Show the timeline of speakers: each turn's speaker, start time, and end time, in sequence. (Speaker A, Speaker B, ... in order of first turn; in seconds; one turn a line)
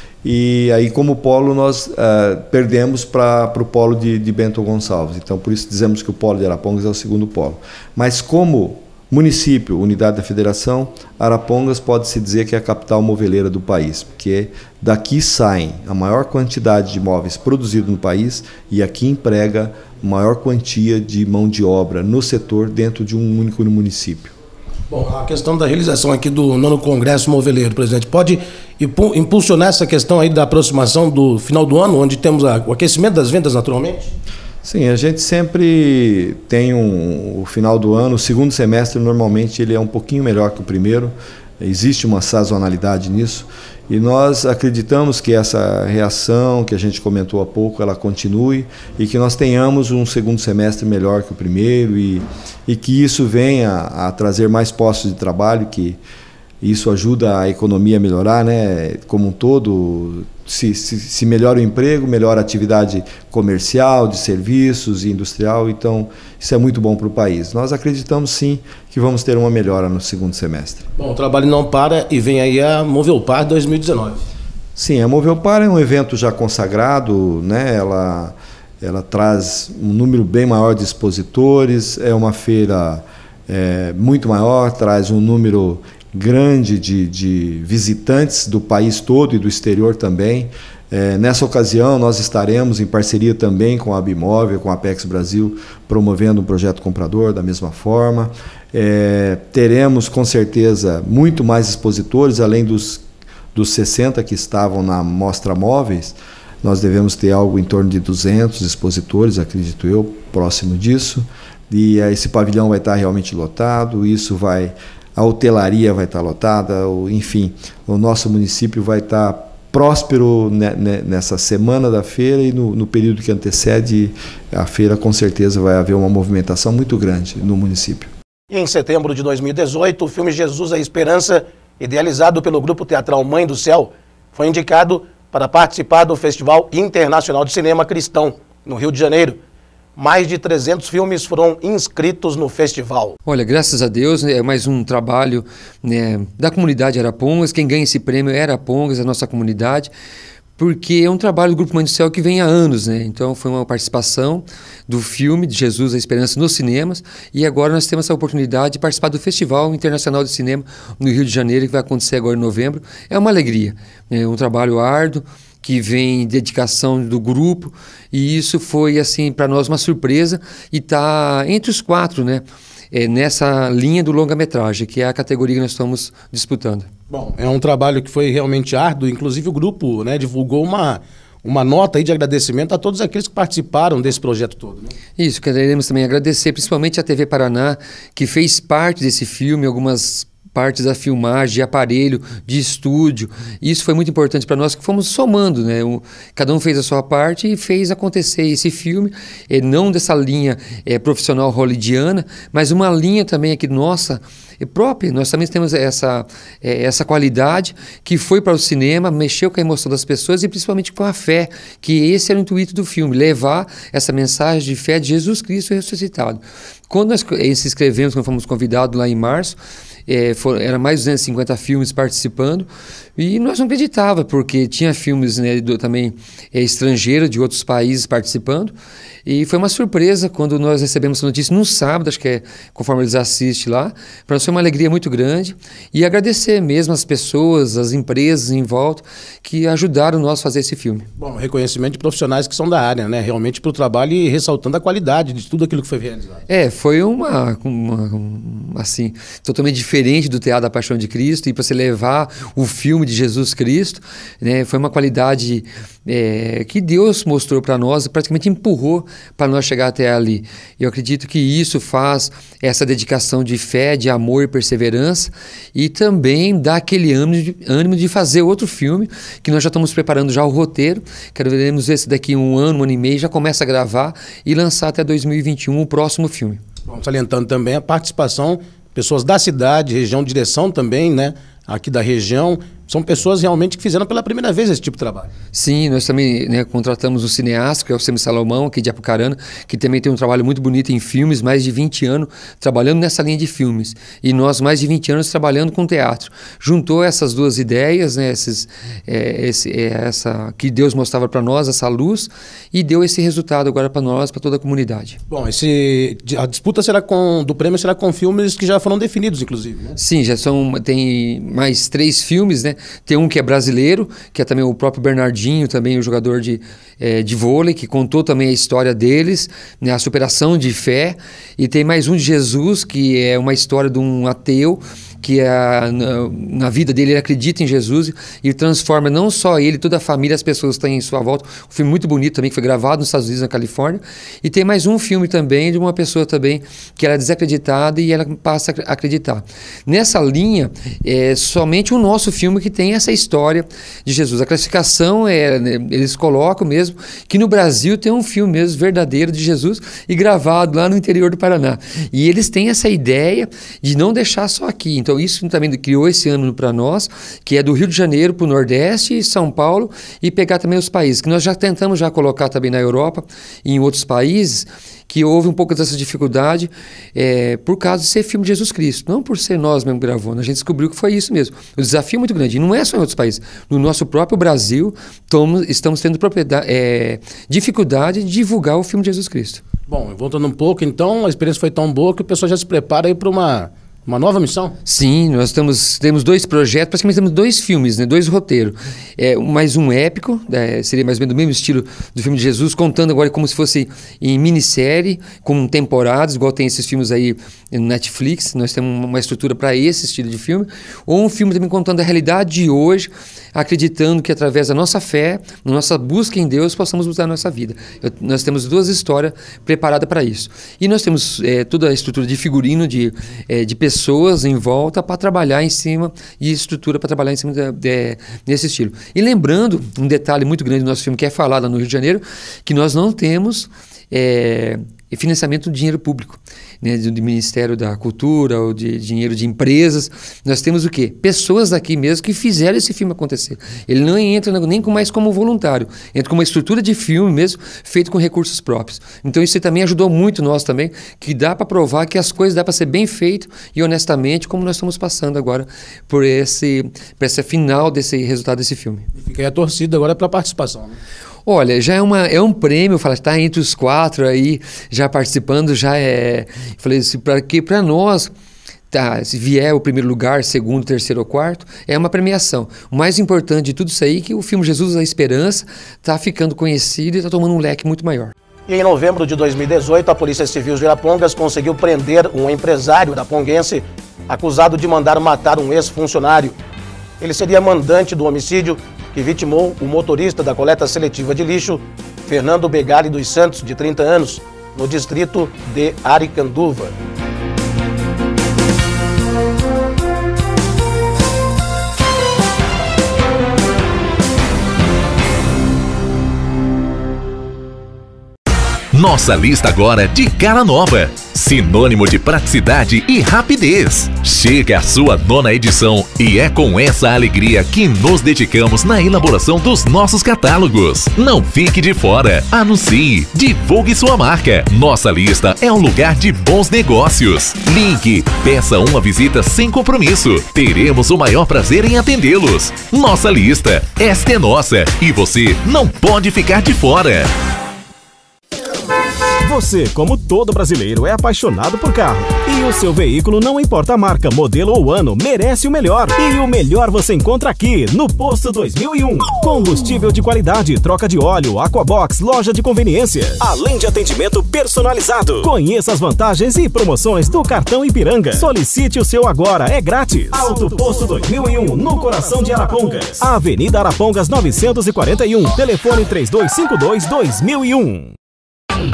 Speaker A: 0.2-24.3
Speaker B: 24.9-34.1
Speaker A: 34.6-56.0
Speaker A: 56.6-70.9
Speaker B: 71.0-74.2
Speaker A: 74.8-103.0
Speaker A: 103.5-128.1
Speaker B: 128.5-139.4
Speaker B: 139.9-143.2
Speaker C: 143.2-149.9
Speaker C: 150.6-176.9
Speaker B: 177.1-184.9
Speaker C: 185.2-228.7
Speaker C: 229.2-241.1
Speaker B: 241.2-246.4
Speaker C: 246.5-276.6
Speaker B: 276.9-285.3
Speaker C: 285.5-305.2
Speaker B: 305.3-309.9
Speaker C: 310.0-379.6
Speaker B: 379.9-384.8
Speaker C: 384.9-449.1
Speaker B: 449.1-451.0
Speaker C: 451.4-458.3
Speaker C: 458.9-468.3
Speaker B: 468.7-476.6
Speaker B: 477.2-486.9
Speaker D: 498.9-527.3
Speaker E: 529.4-558.1